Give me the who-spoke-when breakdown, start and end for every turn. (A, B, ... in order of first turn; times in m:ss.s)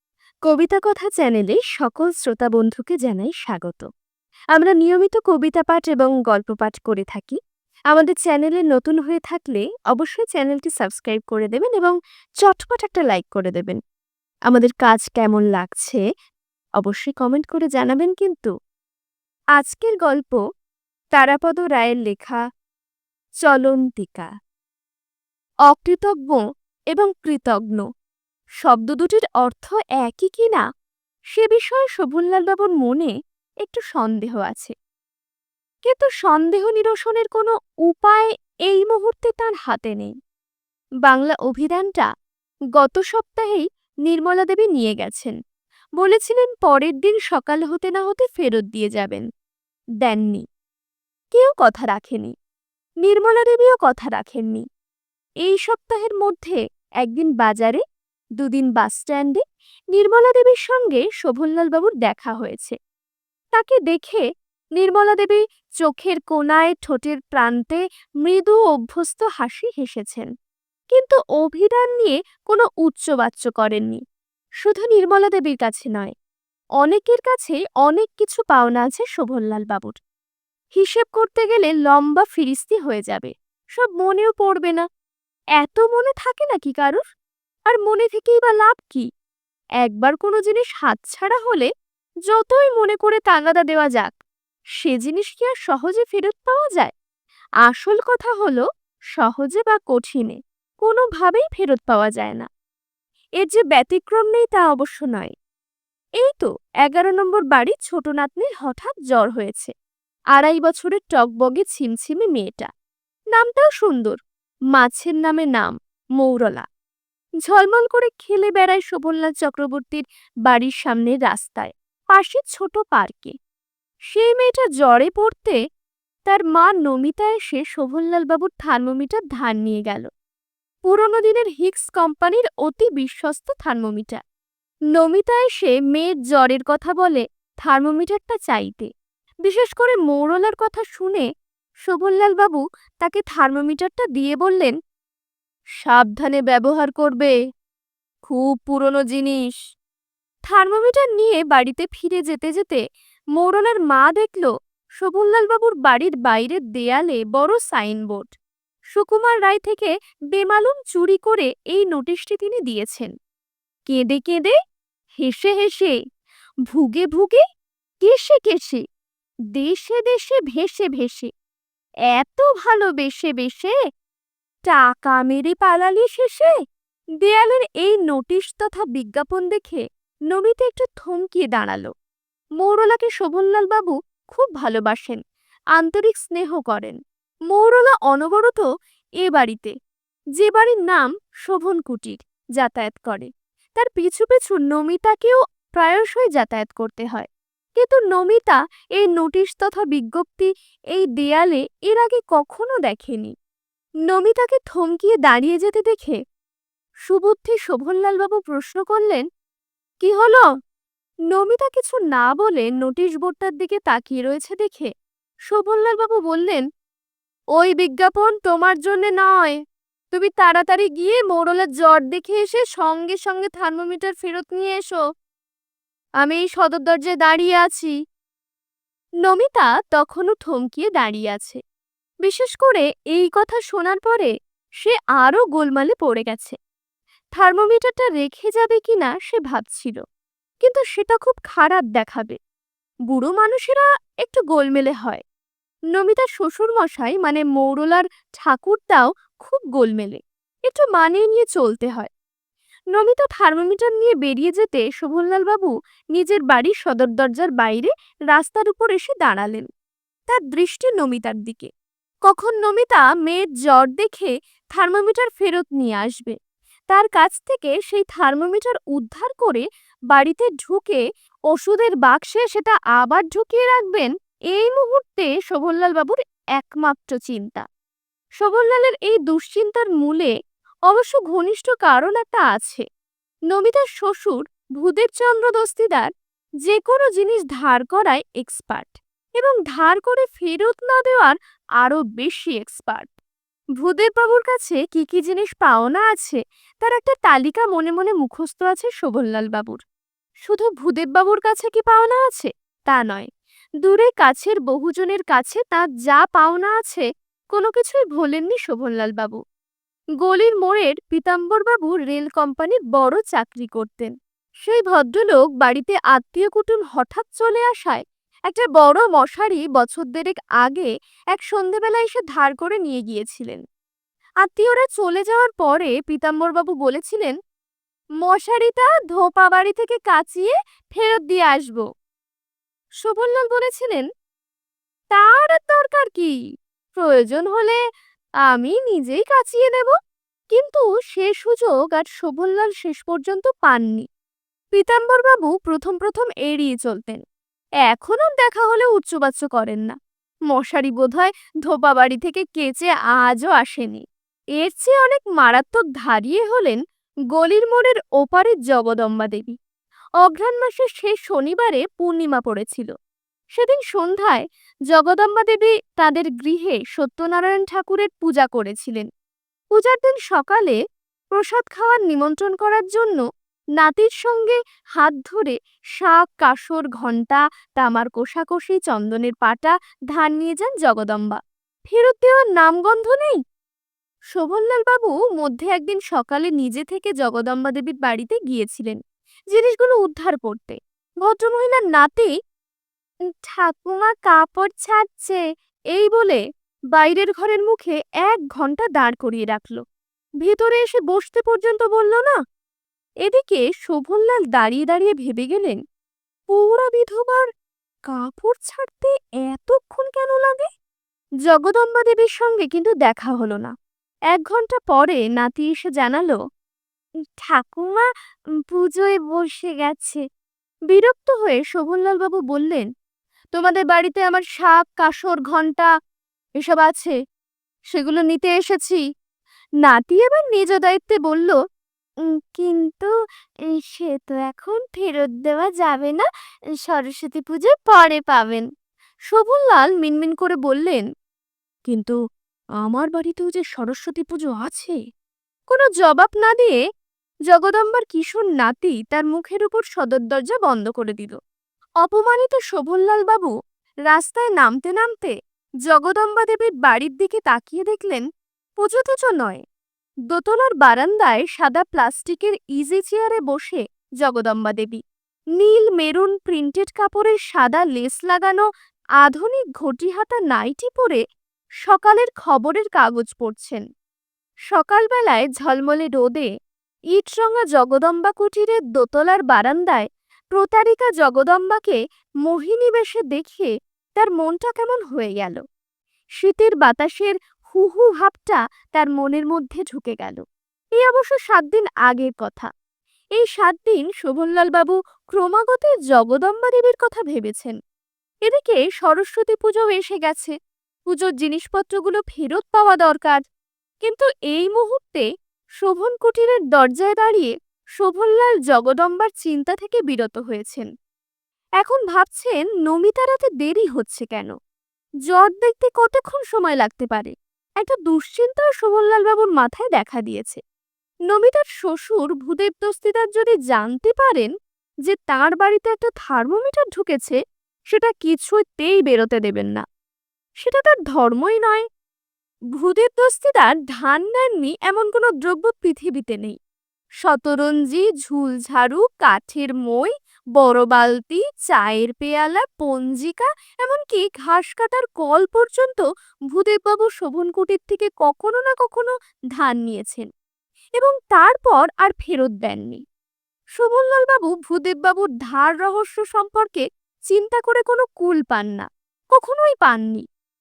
0:00.4-0:03.9 A
0:04.5-0:07.4 A
0:07.9-0:13.8 A
0:14.5-0:16.0 A
0:16.8-0:18.5 A
0:19.6-0:20.4 A
0:21.1-0:22.4 A
0:23.4-0:24.3 A
0:25.7-0:27.8 A
0:28.6-0:30.6 A
0:31.3-0:34.7 A
0:35.8-0:40.1 A
0:41.0-0:42.1 A
0:42.8-0:45.4 A
0:46.0-0:49.2 A
0:50.0-0:50.4 A
0:51.3-0:52.3 A
0:53.0-0:54.6 A
0:55.4-0:57.8 A
0:58.4-1:02.8 A
1:03.5-1:04.2 A
1:04.8-1:10.3 A
1:10.9-1:14.0 A
1:14.6-1:16.1 A
1:16.8-1:20.0 A
1:20.8-1:24.8 A
1:25.6-1:27.0 A
1:27.7-1:29.1 A
1:29.8-1:31.7 A
1:32.3-1:34.1 A
1:34.8-1:36.9 A
1:37.6-1:38.6 A
1:39.1-1:42.5 A
1:43.4-1:45.3 A
1:46.2-1:49.7 A
1:50.3-1:52.7 A
1:53.3-1:54.2 A
1:54.7-1:56.6 A
1:57.4-2:03.3 A
2:04.1-2:05.6 A
2:06.2-2:10.1 A
2:10.8-2:14.2 A
2:14.9-2:18.9 A
2:19.4-2:21.2 A
2:21.8-2:24.7 A
2:25.8-2:27.3 A
2:28.2-2:29.6 A
2:30.4-2:32.8 A
2:33.4-2:38.3 A
2:38.9-2:43.1 A
2:43.8-2:44.6 A
2:45.2-2:46.0 A
2:46.7-2:47.4 A
2:48.0-2:48.8 A
2:49.5-2:51.3 A
2:52.1-2:53.7 A
2:54.6-2:56.5 A
2:57.2-3:01.9 A
3:02.6-3:05.2 A
3:05.8-3:07.0 A
3:07.5-3:08.6 A
3:09.2-3:09.7 A
3:10.4-3:23.3 A
3:24.1-3:26.2 A
3:27.0-3:29.2 A
3:30.0-3:30.4 A
3:31.3-3:34.9 A
3:35.5-3:36.6 A
3:37.6-3:39.6 A
3:40.1-3:45.0 A
3:46.2-3:47.9 A
3:49.2-3:51.6 A
3:52.2-3:56.6 A
3:57.4-4:00.0 A
4:00.6-4:02.4 A
4:03.1-4:05.2 A
4:05.9-4:12.1 A
4:12.9-4:19.7 A
4:20.3-4:21.7 A
4:22.3-4:26.4 A
4:26.9-4:37.6 A
4:38.4-4:40.3 A
4:40.9-4:42.8 A
4:43.5-4:46.1 A
4:46.6-4:53.1 A
4:53.8-4:59.8 A
5:00.4-5:03.3 A
5:03.8-5:09.4 A
5:10.2-5:14.1 A
5:14.6-5:23.6 A
5:24.4-5:27.4 A
5:28.2-5:31.9 A
5:33.0-5:34.0 A
5:35.1-5:36.4 A
5:37.0-5:37.8 A
5:38.5-5:40.0 A
5:40.5-5:44.0 A
5:44.7-5:47.2 A
5:47.8-5:50.0 A
5:50.5-5:54.0 A
5:54.6-5:56.8 A
5:57.3-5:59.6 A
6:00.2-6:02.9 A
6:03.6-6:09.1 A
6:09.7-6:10.8 A
6:11.3-6:13.2 A
6:13.8-6:23.4 A
6:24.3-6:29.0 A
6:29.5-6:32.3 A
6:33.4-6:35.4 A
6:35.9-6:36.4 A
6:36.9-6:39.8 A
6:40.4-6:42.4 A
6:43.2-6:45.8 A
6:46.5-6:47.5 A
6:48.1-6:50.7 A
6:51.4-6:53.7 A
6:54.3-6:56.4 A
6:57.4-6:58.1 A
6:58.7-7:00.2 A
7:00.9-7:02.8 A
7:03.5-7:05.9 A
7:06.6-7:07.1 A
7:07.9-7:09.0 A
7:09.8-7:11.6 A
7:12.3-7:13.1 A
7:13.7-7:16.3 A
7:16.8-7:18.6 A
7:19.3-7:21.0 A
7:21.8-7:22.2 A
7:22.8-7:25.0 A
7:25.7-7:26.8 A
7:27.5-7:31.4 A
7:32.0-7:33.5 A
7:34.1-7:35.3 A
7:35.8-7:38.2 A
7:38.8-7:39.6 A
7:40.3-7:45.0 A
7:45.6-7:48.6 A
7:49.2-7:51.2 A
7:51.8-7:53.8 A
7:54.7-7:56.5 A
7:57.1-8:05.6 A
8:06.4-8:10.4 A
8:11.0-8:12.7 A
8:13.4-8:17.8 A
8:18.4-8:20.5 A
8:21.1-8:23.4 A
8:24.0-8:25.2 A
8:25.8-8:30.9 A
8:31.8-8:34.5 A
8:35.3-8:40.6 A
8:41.3-8:44.5 A
8:45.0-8:47.4 A
8:47.9-8:49.8 A
8:50.6-8:51.8 A
8:52.7-8:56.6 A
8:57.2-9:10.3 A
9:11.0-9:13.0 A
9:13.8-9:20.2 A